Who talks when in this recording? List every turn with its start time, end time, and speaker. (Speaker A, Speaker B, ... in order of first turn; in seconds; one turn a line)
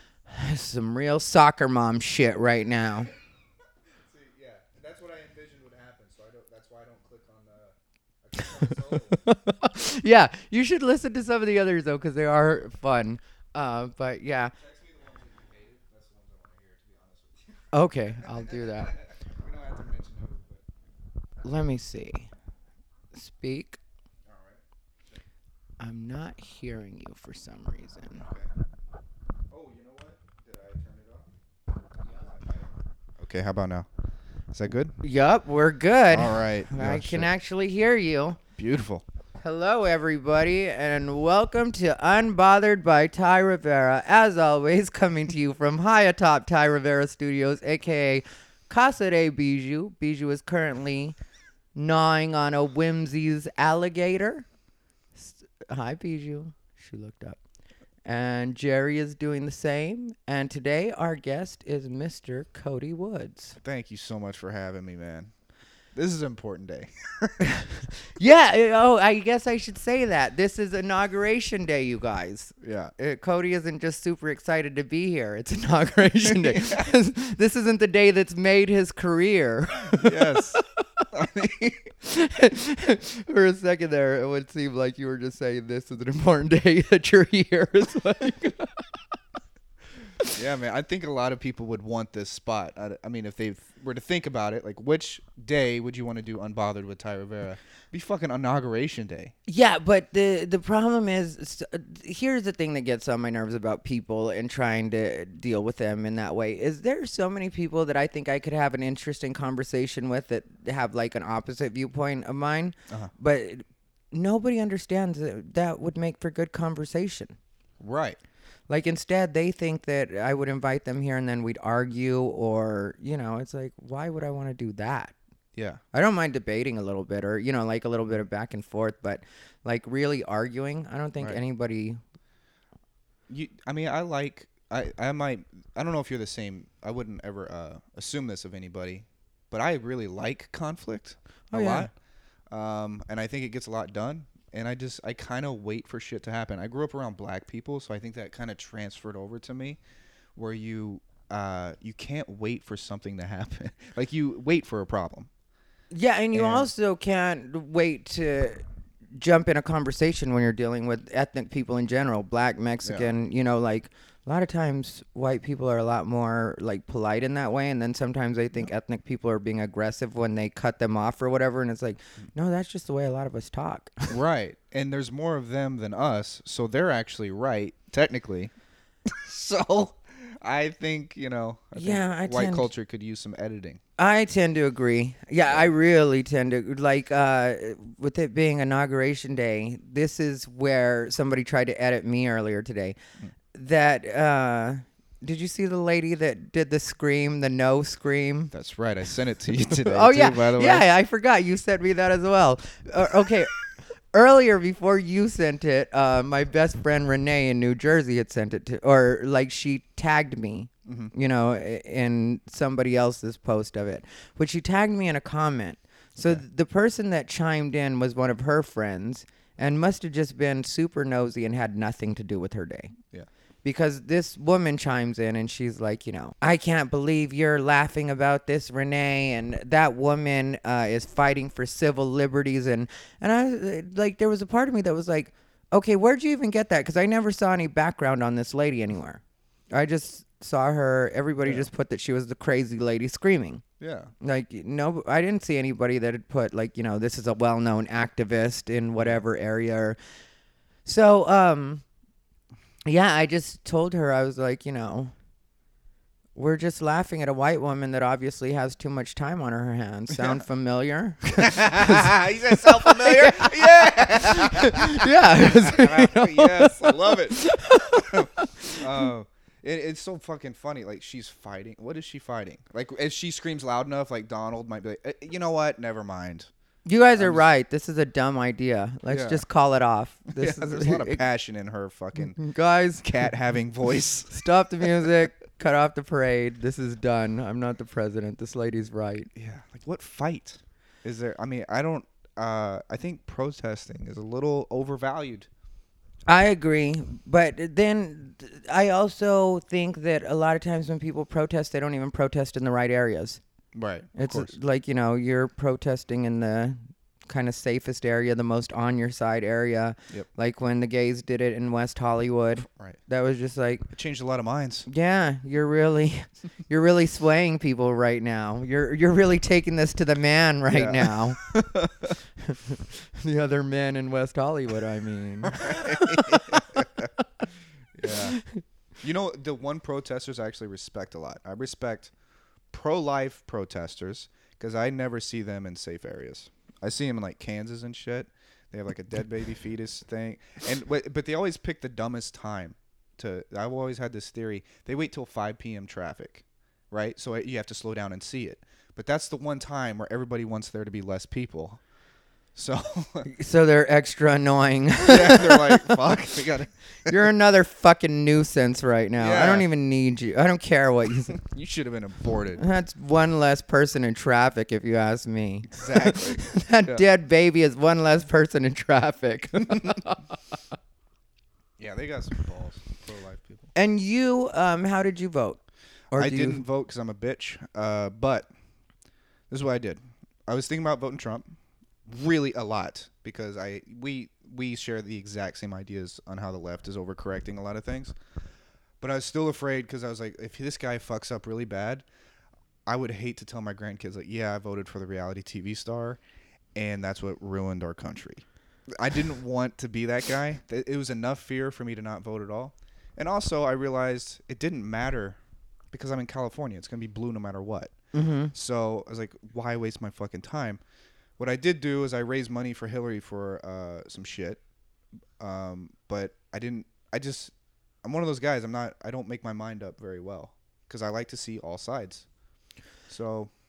Speaker A: 0.3-3.1
Speaker B: 4.0-9.2
Speaker A: 8.7-14.6
Speaker B: 14.6-17.6
Speaker A: 17.7-18.9
Speaker B: 18.2-20.6
Speaker A: 21.4-22.3
Speaker A: 23.1-23.8
Speaker B: 24.3-24.6
Speaker A: 25.8-28.3
Speaker B: 29.5-31.3
Speaker B: 32.1-33.9
Speaker B: 34.5-35.0
Speaker A: 35.0-38.4
Speaker B: 36.1-37.3
Speaker B: 38.6-39.0
Speaker A: 39.4-51.2
Speaker A: 51.8-54.5
Speaker A: 55.2-57.4
Speaker A: 58.0-63.6
Speaker B: 63.6-65.3
Speaker B: 65.9-67.8
Speaker A: 68.2-80.5
Speaker B: 72.6-72.9
Speaker B: 76.2-76.9
Speaker B: 80.0-81.9
Speaker A: 82.0-88.9
Speaker B: 90.3-99.3
Speaker A: 99.5-117.4
Speaker B: 117.8-118.2
Speaker A: 118.7-125.2
Speaker B: 125.5-125.8
Speaker A: 125.9-132.0
Speaker B: 133.3-141.9
Speaker A: 141.5-141.9
Speaker B: 142.5-149.8
Speaker B: 150.4-155.3
Speaker A: 155.9-158.6
Speaker B: 156.3-156.7
Speaker A: 159.2-174.2
Speaker B: 162.8-163.1
Speaker B: 174.1-178.5
Speaker B: 179.1-183.8
Speaker A: 181.8-182.7
Speaker A: 184.0-193.0
Speaker A: 193.5-198.5
Speaker B: 198.5-200.8
Speaker A: 199.7-203.6
Speaker A: 204.1-222.9
Speaker B: 210.9-211.1
Speaker A: 223.6-243.6
Speaker B: 241.4-241.7
Speaker B: 243.8-244.1
Speaker A: 244.2-250.0
Speaker A: 250.8-251.8
Speaker A: 252.9-255.1
Speaker A: 256.4-269.1
Speaker B: 260.2-260.4
Speaker B: 261.3-276.5
Speaker A: 276.9-281.2
Speaker B: 277.2-277.4
Speaker B: 279.1-279.4
Speaker B: 280.3-282.4
Speaker A: 282.2-283.3
Speaker B: 283.0-285.1
Speaker A: 284.3-289.3
Speaker B: 289.4-295.5
Speaker A: 296.3-303.4
Speaker B: 303.8-304.6
Speaker A: 304.1-313.9
Speaker B: 312.7-313.0
Speaker B: 313.9-314.9
Speaker A: 314.9-321.4
Speaker B: 320.7-322.2
Speaker A: 322.4-327.5
Speaker B: 325.4-327.1
Speaker B: 327.9-328.4
Speaker A: 328.1-328.6
Speaker B: 329.0-332.1
Speaker B: 332.7-351.8
Speaker B: 352.6-353.3
Speaker A: 353.3-356.3
Speaker B: 355.1-357.2
Speaker A: 357.1-361.4
Speaker B: 359.2-359.7
Speaker B: 361.3-362.6
Speaker A: 362.6-370.4
Speaker B: 365.7-367.0
Speaker B: 371.8-373.7
Speaker A: 373.8-375.6
Speaker A: 376.1-376.6
Speaker B: 376.1-378.5
Speaker B: 379.5-388.1
Speaker B: 389.0-392.1
Speaker B: 392.9-396.2
Speaker B: 396.8-405.4
Speaker B: 405.9-407.9
Speaker A: 408.1-408.5
Speaker B: 408.5-410.8
Speaker B: 411.4-414.6
Speaker B: 415.4-422.3
Speaker B: 423.1-423.5